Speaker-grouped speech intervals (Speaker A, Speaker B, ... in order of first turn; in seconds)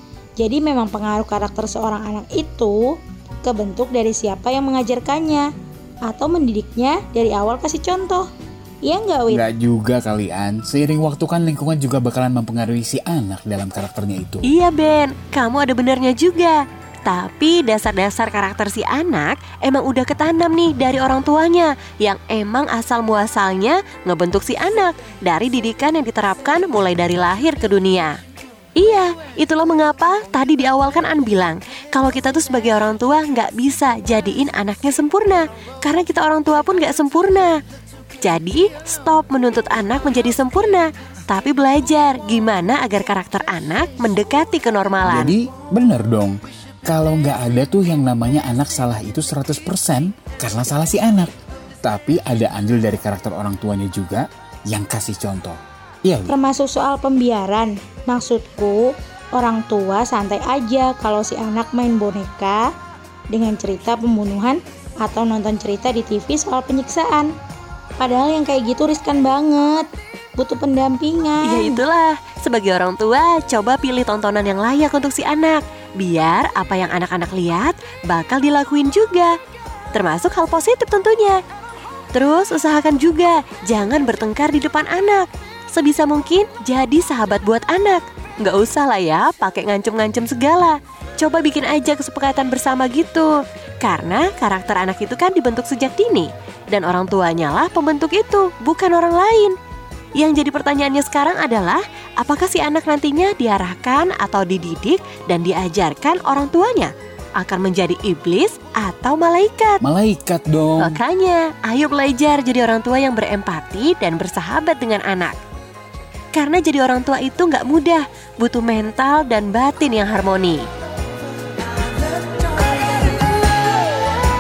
Speaker A: 0.4-5.5, 6.1-8.3, 8.8-9.4, 56.3-62.7, 63.3-67.3, 68.0-71.8
Speaker B: 9.3-14.5, 45.0-51.3, 51.8-56.4, 109.8-111.0
Speaker C: 14.4-28.2, 28.8-37.6, 38.2-45.4, 71.4-79.3, 79.9-81.4, 82.1-99.5, 100.2-109.8, 110.8-115.4, 116.3-120.7